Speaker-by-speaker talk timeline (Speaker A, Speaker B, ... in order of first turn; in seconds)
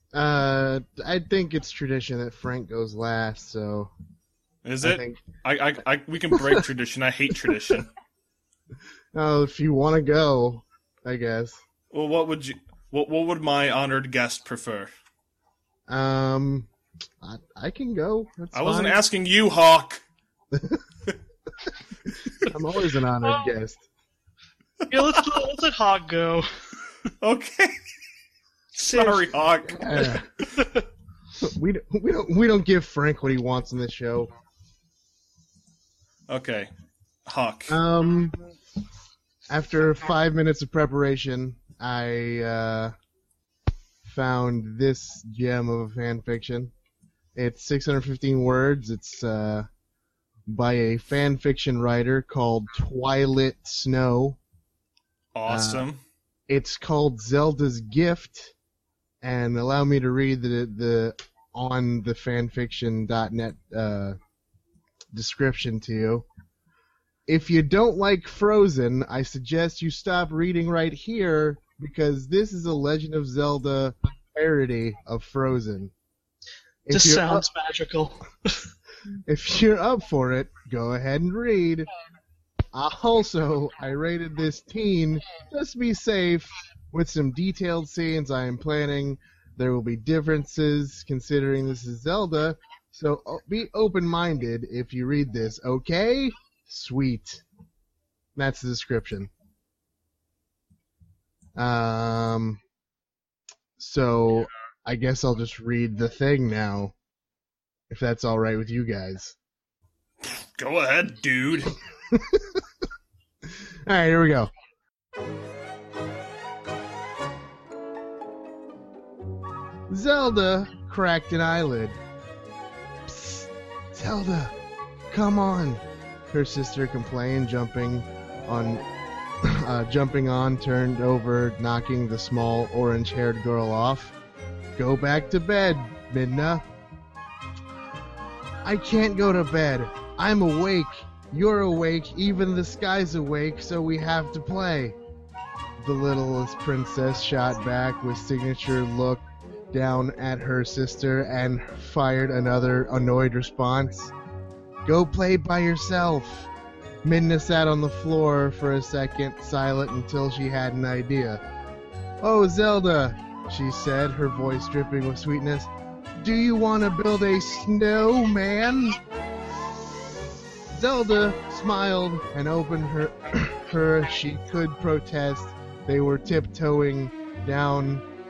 Speaker A: 0.1-3.9, 4.8-5.2, 9.1-11.6, 15.9-16.7, 17.2-19.0, 20.5-20.8, 22.4-23.8, 29.7-30.3, 31.4-34.3, 37.7-38.4, 39.5-42.9, 44.0-46.7, 47.4-49.7, 50.5-54.4, 55.5-55.9, 56.5-58.5, 59.2-64.2, 65.1-66.3, 67.3-75.9, 76.9-77.5, 79.3-81.9, 82.7-97.4, 98.4-99.3, 101.6-102.6, 103.8-106.9, 107.9-109.4, 112.1-112.6, 113.9-114.5, 119.9-122.0, 123.1-124.5, 125.1-128.8, 129.4-134.1, 134.8-136.6, 138.6-145.0, 145.8-154.1, 154.8-156.5, 157.0-161.4, 162.2-169.0, 170.7-178.1
Speaker B: 4.7-7.9, 11.9-14.9, 18.5-20.0, 27.2-27.7, 28.8-30.2, 36.3-36.7, 37.3-37.8, 55.4-56.0, 110.2-111.7
Speaker C: 24.9-26.5, 28.8-29.2, 30.6-30.9, 76.9-78.7